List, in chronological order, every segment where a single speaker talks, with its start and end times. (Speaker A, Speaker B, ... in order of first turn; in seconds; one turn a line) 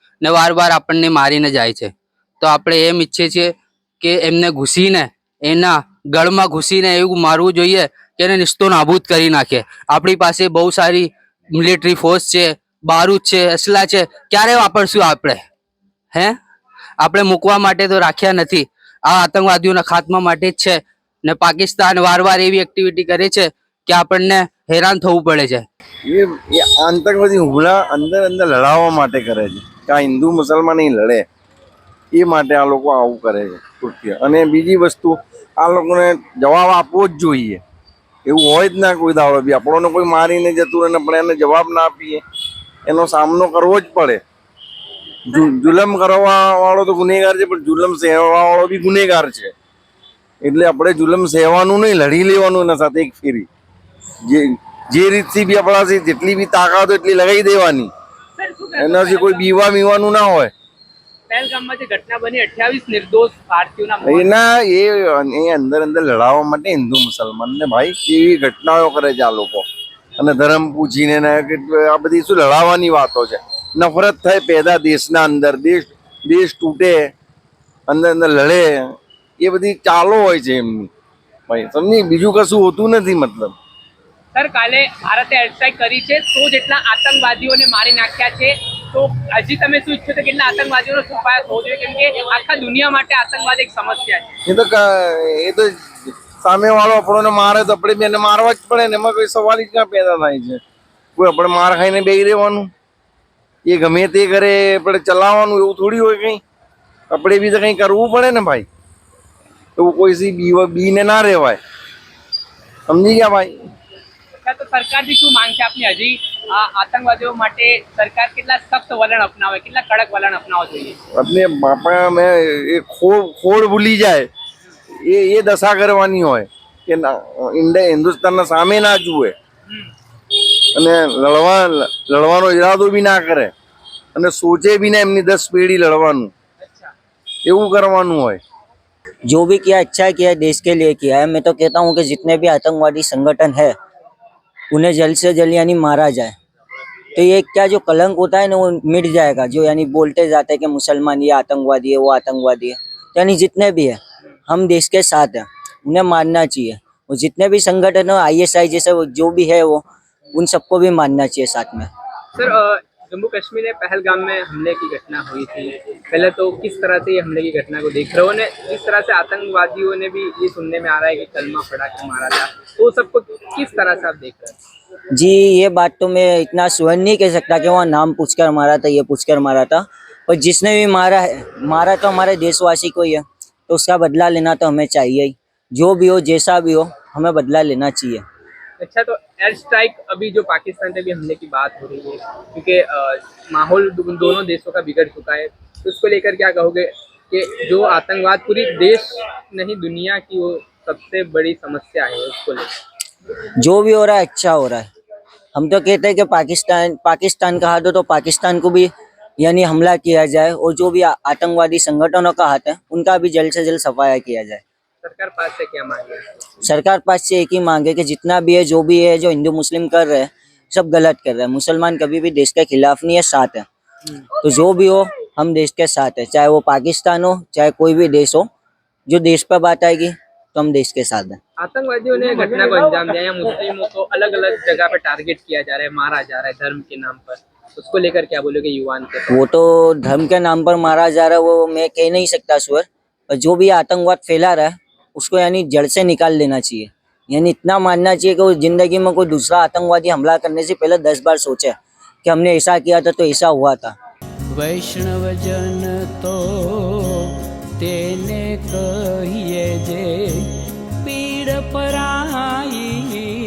Speaker A: 0.2-15.4
Speaker A: 17.0-25.6
Speaker B: 26.1-31.2
Speaker B: 32.1-37.6
Speaker B: 38.2-42.2
Speaker B: 42.9-44.2
Speaker B: 45.3-49.5
Speaker B: 50.4-53.5
Speaker B: 54.3-57.9
Speaker C: 58.4-59.6
Speaker B: 58.8-60.5
Speaker C: 61.3-64.3
Speaker B: 64.0-69.6
Speaker B: 70.2-77.1
Speaker B: 77.9-80.9
Speaker B: 81.5-83.5
Speaker C: 84.3-94.2
Speaker B: 94.5-100.6
Speaker B: 101.2-102.7
Speaker B: 103.7-106.4
Speaker B: 107.1-108.7
Speaker B: 109.8-111.6
Speaker B: 112.9-113.5
Speaker C: 114.4-121.0
Speaker B: 121.2-124.3
Speaker B: 125.1-129.3
Speaker B: 130.7-133.5
Speaker B: 134.1-136.3
Speaker C: 136.6-136.9
Speaker B: 137.4-138.4
Speaker D: 139.2-143.7
Speaker D: 144.7-146.3
Speaker D: 147.1-161.9
Speaker C: 162.3-174.5
Speaker D: 175.1-188.2
Speaker C: 188.8-202.7
Speaker D: 203.6-204.9
Speaker D: 205.5-214.6
Speaker C: 215.0-216.2
Speaker D: 216.6-223.6
Speaker D: 224.4-228.5
Speaker D: 229.1-231.4
Speaker C: 231.6-239.4
Speaker D: 239.3-253.9
Speaker E: 254.6-256.4
Speaker E: 257.8-260.0
Speaker E: 261.1-262.8